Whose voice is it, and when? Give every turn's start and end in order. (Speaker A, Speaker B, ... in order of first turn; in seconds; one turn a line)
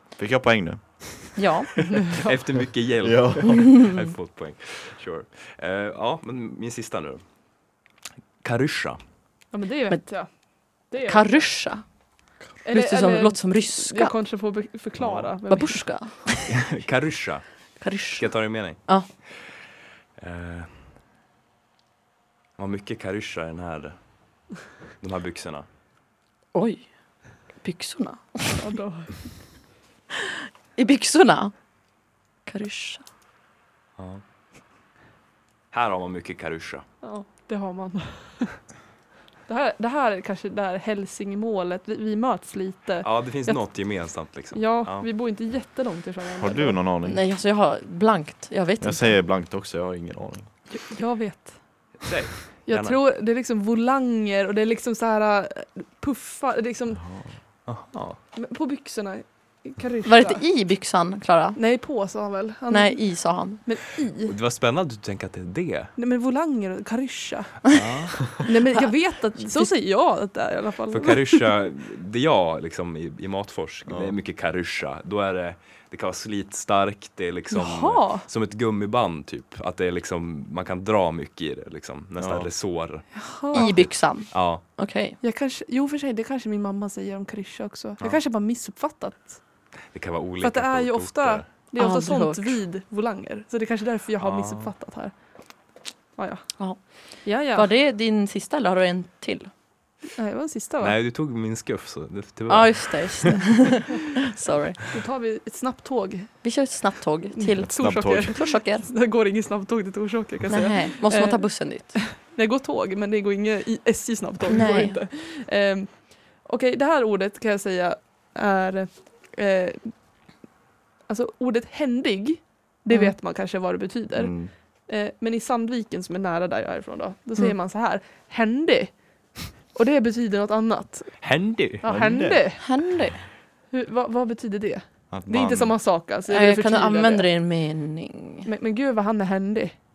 Speaker A: 0.2-1.5
Speaker B: 1.4-1.7
Speaker C: 1.9-2.3
Speaker D: 2.2-7.2
Speaker A: 3.0-3.8
Speaker D: 8.4-9.0
Speaker C: 9.5-11.5
Speaker B: 10.8-11.9
Speaker C: 12.6-16.0
Speaker B: 12.7-14.1
Speaker D: 15.0-15.3
Speaker B: 15.5-16.4
Speaker D: 16.5-17.4
Speaker B: 17.8-19.1
Speaker D: 18.1-19.5
Speaker D: 20.2-20.9
Speaker D: 22.6-24.0
Speaker D: 25.0-25.7
Speaker B: 26.5-28.6
Speaker C: 28.6-29.3
Speaker B: 30.8-31.6
Speaker B: 32.5-33.0
Speaker D: 34.0-34.2
Speaker D: 35.7-36.8
Speaker C: 37.0-38.6
Speaker C: 39.5-43.7
Speaker D: 43.0-45.1
Speaker C: 44.5-46.8
Speaker A: 46.4-47.2
Speaker B: 47.0-49.2
Speaker A: 48.8-50.5
Speaker C: 50.7-51.9
Speaker D: 52.0-53.0
Speaker C: 52.6-57.1
Speaker A: 57.0-57.3
Speaker D: 57.6-58.2
Speaker C: 58.3-60.4
Speaker B: 60.0-61.6
Speaker C: 61.5-64.3
Speaker B: 62.7-63.6
Speaker D: 64.2-65.9
Speaker C: 66.0-67.8
Speaker D: 67.7-68.3
Speaker C: 68.4-71.4
Speaker B: 68.7-69.7
Speaker D: 70.9-84.6
Speaker A: 73.9-74.1
Speaker C: 77.5-78.3
Speaker A: 82.2-82.5
Speaker C: 83.2-83.7
Speaker B: 83.5-85.2
Speaker C: 85.2-89.4
Speaker D: 89.9-91.5
Speaker C: 90.4-95.1
Speaker B: 91.8-92.6
Speaker D: 94.2-94.7
Speaker C: 96.2-96.5
Speaker B: 96.6-99.5
Speaker C: 97.0-97.7
Speaker C: 100.2-100.9
Speaker D: 100.8-103.3
Speaker B: 102.5-104.8
Speaker C: 104.9-106.4
Speaker B: 106.4-108.8
Speaker C: 107.4-120.0
Speaker A: 107.6-108.3
Speaker B: 110.5-111.9
Speaker B: 114.5-115.0
Speaker C: 121.0-132.6
Speaker B: 122.9-123.1
Speaker A: 124.1-124.5
Speaker D: 131.2-131.8
Speaker A: 131.8-132.7
Speaker B: 132.6-133.2
Speaker C: 133.7-137.3
Speaker A: 135.1-135.8
Speaker B: 136.2-138.5
Speaker C: 138.4-139.7